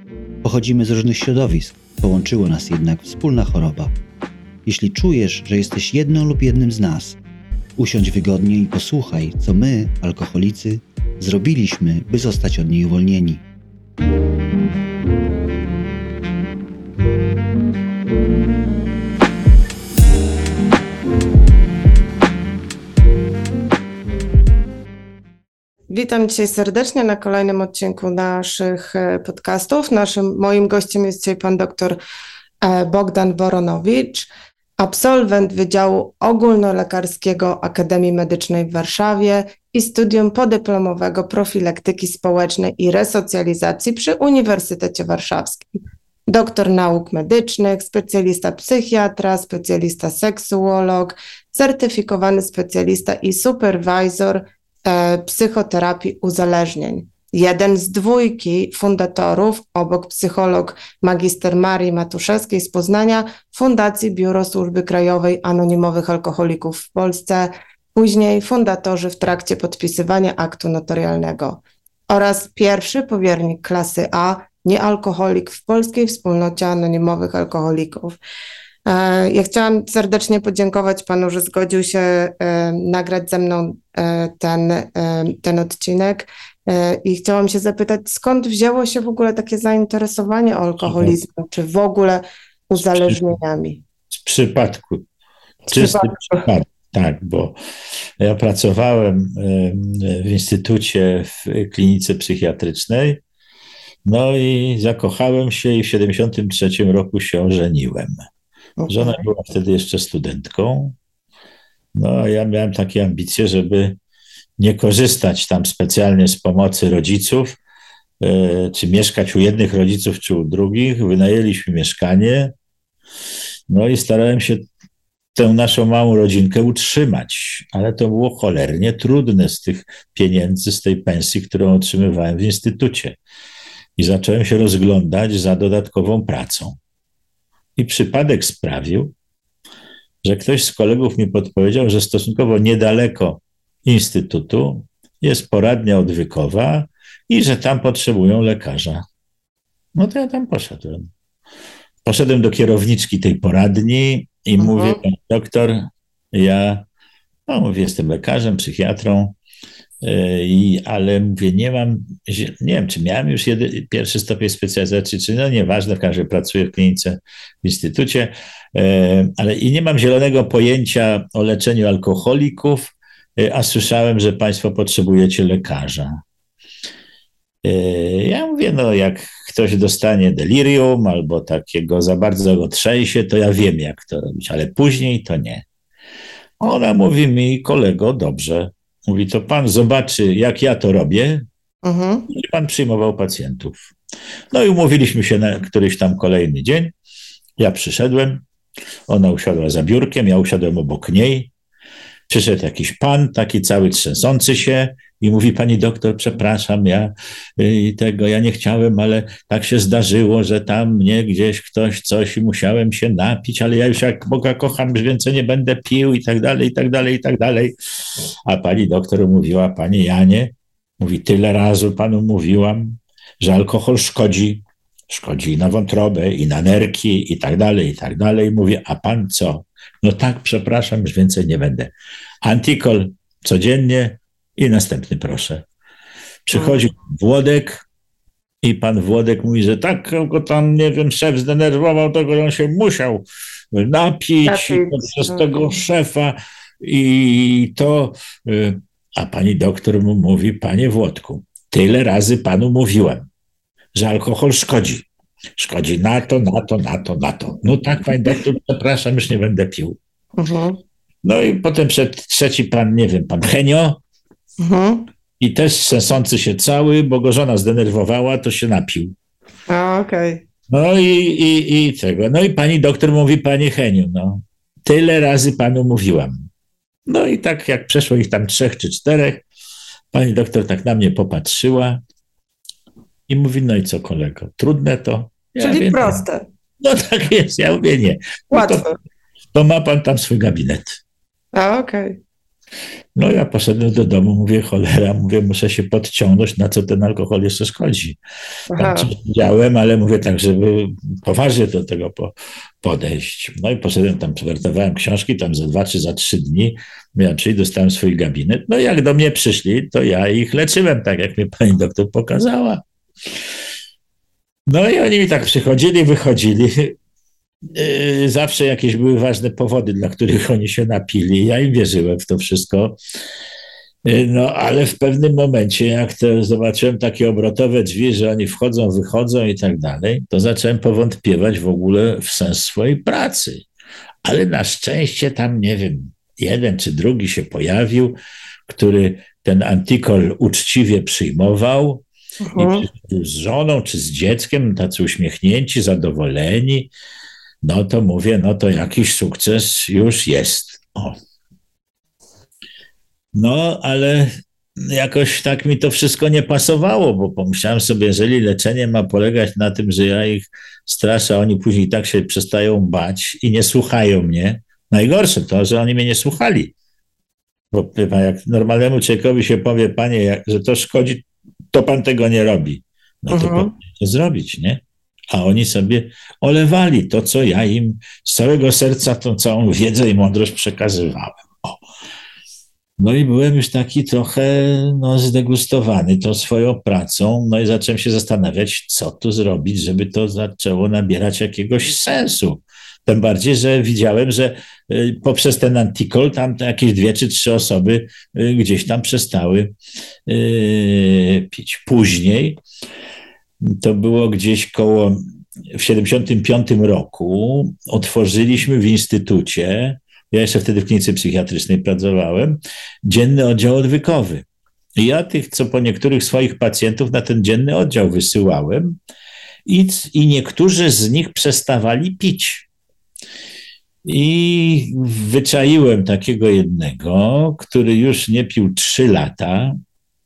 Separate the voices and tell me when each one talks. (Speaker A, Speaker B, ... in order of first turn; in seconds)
Speaker A: 0.4-3.9, 4.7-7.2, 7.8-13.4
Speaker B: 25.9-32.0, 32.6-45.7, 46.3-78.2, 78.9-93.8, 95.7-96.5, 108.8-109.2, 154.6-155.0, 191.8-192.3, 236.5-236.8, 244.5-245.4, 260.4-260.8, 264.6-265.1, 269.7-270.4, 285.6-286.5, 288.5-289.0, 291.5-292.2, 298.7-299.1, 342.4-342.9, 373.3-373.7
Speaker C: 90.8-91.2, 92.8-93.2, 94.1-95.0, 95.7-97.6, 98.2-103.2, 104.0-108.3, 108.9-111.0, 112.0-114.0, 114.6-117.6, 118.2-122.5, 123.7-124.7, 125.4-133.2, 134.0-136.8, 137.8-139.1, 140.2-149.0, 149.9-151.1, 152.1-156.8, 157.5-159.4, 160.0-176.2, 177.6-185.7, 186.6-191.4, 192.3-193.8, 194.5-196.9, 197.6-198.4, 199.1-201.5, 202.3-217.7, 218.5-235.7, 236.5-237.8, 238.6-253.3, 254.0-255.1, 255.6-260.0, 261.2-264.0, 265.4-269.1, 270.7-276.5, 277.1-279.4, 280.1-282.0, 283.3-286.2, 286.8-288.9, 289.5-291.0, 293.2-298.2, 298.8-312.8, 314.7-317.0, 317.6-323.0, 324.1-333.7, 334.2-342.0, 342.6-346.9, 347.6-351.2, 353.3-366.7, 367.7-374.8, 375.3-381.8, 383.0-399.7, 400.3-402.6, 403.6-405.2, 405.7-414.4, 415.0-419.0, 419.7-422.7, 424.1-429.8